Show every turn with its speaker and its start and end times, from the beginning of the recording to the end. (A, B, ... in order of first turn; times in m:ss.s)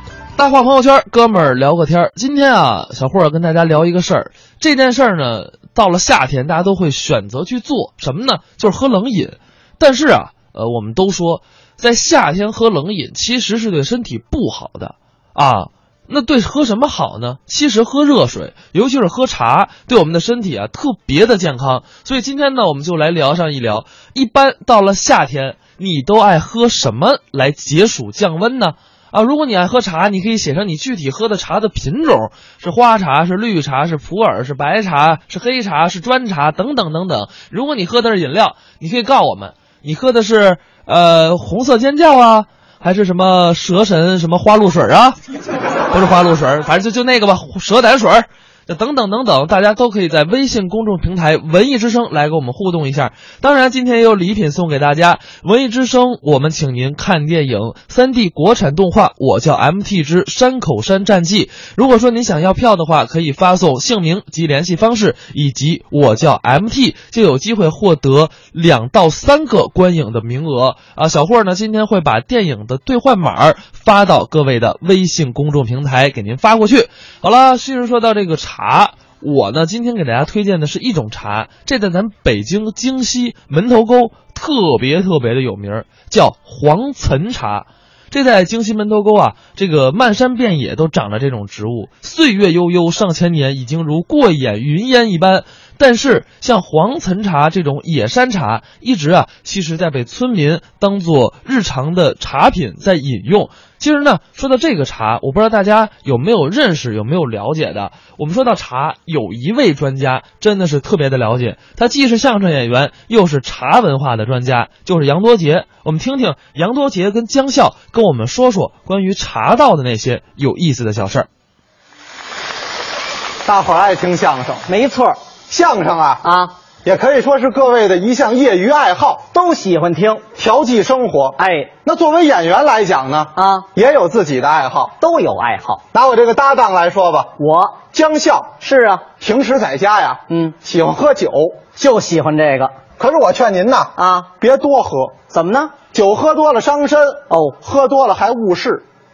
0:00.4-0:45.2 A
0:45.9-2:01.3 A
2:03.4-2:04.7 B
2:04.7-2:05.2 C
2:05.5-2:06.2 B
2:06.2-2:06.5 C
2:06.8-2:09.3 B
2:09.3-2:10.3 C
2:10.3-2:15.0 B
2:11.4-2:11.7 C
2:13.4-2:13.7 C
2:15.0-2:15.8 C
2:15.9-2:17.4 B
2:17.4-2:17.8 C
2:17.9-2:18.6 B
2:18.6-2:19.1 C
2:19.2-2:21.6 B
2:20.3-2:20.6 C
2:21.8-2:22.8 C
2:23.0-2:25.2 B
2:24.0-2:24.3 C
2:25.3-2:25.8 C
2:25.9-2:28.8 B